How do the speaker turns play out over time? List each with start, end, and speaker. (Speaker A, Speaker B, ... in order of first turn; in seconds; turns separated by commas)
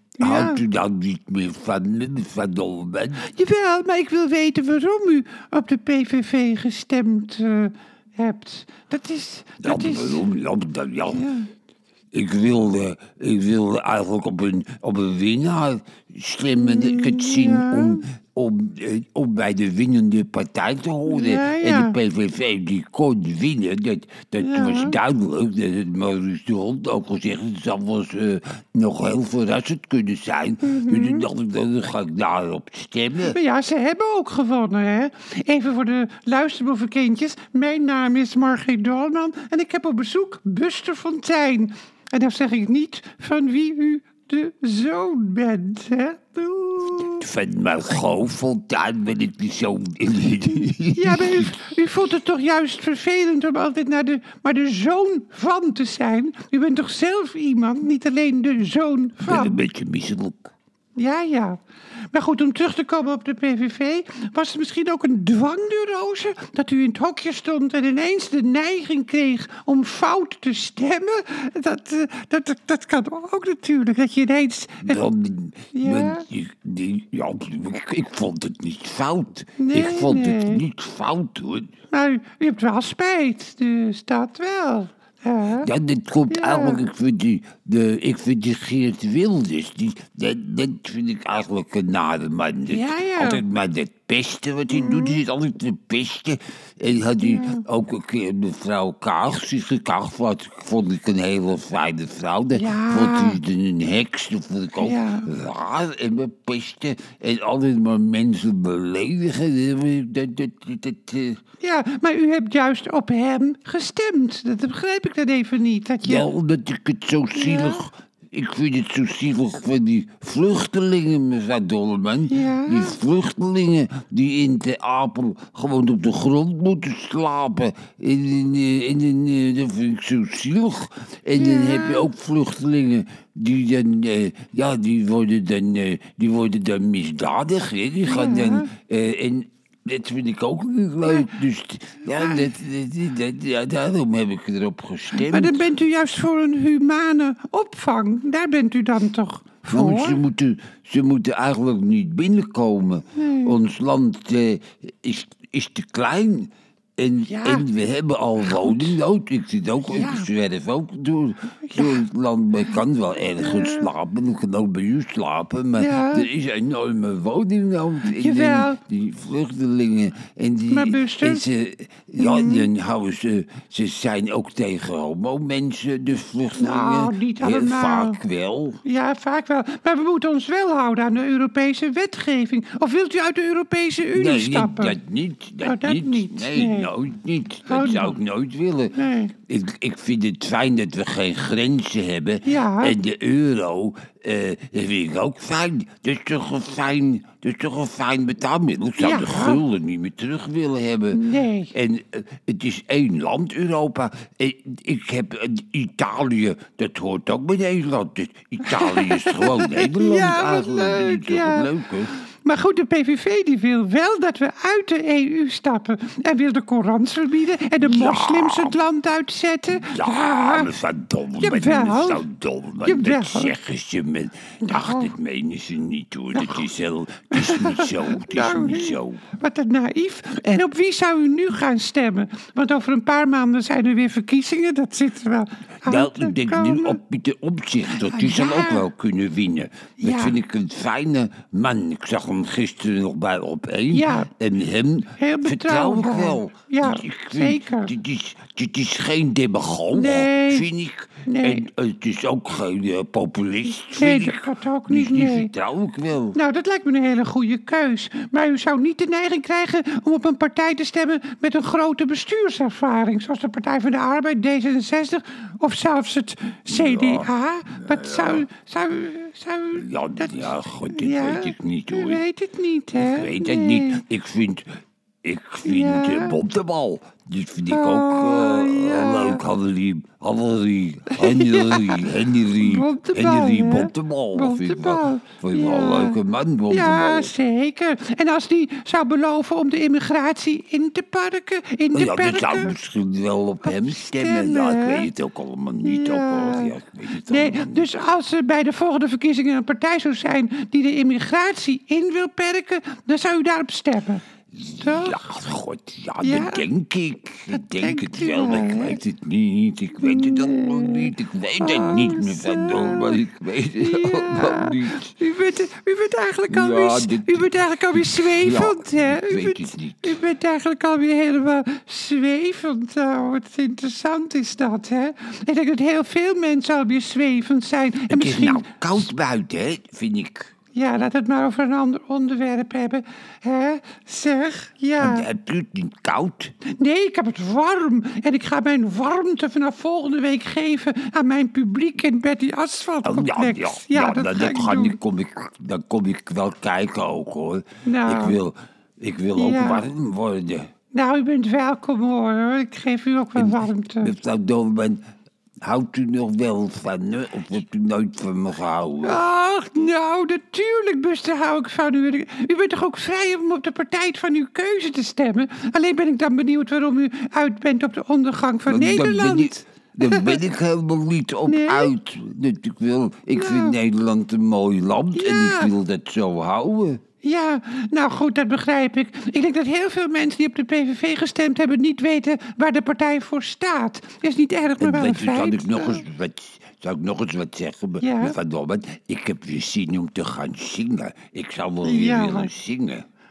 Speaker A: 0.2-0.6, Speaker B: 0.2-3.2, Speaker A: 3.2-10.2, Speaker B: 9.6-11.3, Speaker A: 11.1-11.5, Speaker B: 12.1-33.4, Speaker A: 16.6-18.1, Speaker A: 21.1-21.9, Speaker A: 24.4-25.0, Speaker A: 30.6-31.2, Speaker A: 33.2-47.2, Speaker B: 47.1-51.5, Speaker A: 50.9-59.5, Speaker B: 59.2-60.5, Speaker A: 61.0-61.6, Speaker A: 62.1-75.0, Speaker B: 74.8-81.7, Speaker A: 75.7-76.2, Speaker A: 79.6-80.6, Speaker A: 81.9-85.7, Speaker B: 85.6-111.4, Speaker A: 86.3-86.8, Speaker A: 92.7-93.4, Speaker A: 94.7-95.2, Speaker A: 97.2-97.6, Speaker A: 102.5-103.4, Speaker A: 104.8-105.3, Speaker A: 111.6-116.3, Speaker B: 116.0-145.6, Speaker A: 117.3-117.8, Speaker A: 122.3-123.0, Speaker A: 131.3-132.1, Speaker A: 138.0-138.7, Speaker A: 142.1-142.5, Speaker A: 145.1-150.2, Speaker B: 149.7-178.8, Speaker A: 153.1-153.6, Speaker A: 157.3-157.7, Speaker A: 158.4-158.9, Speaker A: 159.9-160.3, Speaker A: 161.6-162.0, Speaker A: 163.4-163.9, Speaker A: 165.8-166.3, Speaker A: 168.1-168.8, Speaker A: 170.7-171.5, Speaker A: 172.2-172.7, Speaker A: 176.6-178.2, Speaker A: 178.8-185.0, Speaker B: 184.1-188.9, Speaker A: 185.6-186.9, Speaker A: 187.7-188.2, Speaker A: 188.9-189.3, Speaker B: 189.4-212.1, Speaker A: 192.4-192.9, Speaker A: 199.0-199.6, Speaker A: 201.1-201.7, Speaker A: 208.6-211.7, Speaker A: 212.4-220.7, Speaker B: 217.8-218.8, Speaker B: 219.7-229.2, Speaker A: 221.4-222.2, Speaker A: 222.8-223.5, Speaker A: 224.6-225.1, Speaker A: 226.3-226.7, Speaker A: 227.3-237.0, Speaker B: 235.8-256.4, Speaker A: 237.9-238.8, Speaker A: 240.0-240.3, Speaker A: 243.9-244.3, Speaker A: 245.2-247.9, Speaker A: 249.9-250.7, Speaker A: 251.2-251.6, Speaker A: 253.9-255.5, Speaker A: 256.3-274.0, Speaker B: 266.7-268.4, Speaker B: 269.7-272.2, Speaker B: 272.9-287.3, Speaker A: 275.6-276.4, Speaker A: 277.7-279.4, Speaker A: 281.1-282.0, Speaker A: 282.6-286.2, Speaker A: 286.7-292.7, Speaker B: 291.9-297.9, Speaker A: 293.6-295.1, Speaker A: 295.8-296.7, Speaker A: 297.3-304.2, Speaker B: 304.5-315.1, Speaker A: 304.8-305.3, Speaker A: 306.2-306.6, Speaker A: 307.5-309.0, Speaker A: 310.0-313.2, Speaker A: 313.8-329.1, Speaker B: 316.5-320.2, Speaker B: 328.1-330.5, Speaker A: 330.7-335.2, Speaker B: 335.0-336.5, Speaker A: 336.6-345.0, Speaker B: 343.0-350.7, Speaker A: 347.8-348.4, Speaker A: 349.4-349.8, Speaker A: 350.9-354.1, Speaker B: 353.4-355.0, Speaker B: 355.6-359.2, Speaker A: 359.0-370.4, Speaker B: 368.7-377.0, Speaker A: 371.4-371.9, Speaker A: 373.3-373.8, Speaker A: 375.1-375.7, Speaker A: 377.2-386.1, Speaker B: 384.8-393.0, Speaker A: 388.0-388.4, Speaker A: 391.8-392.5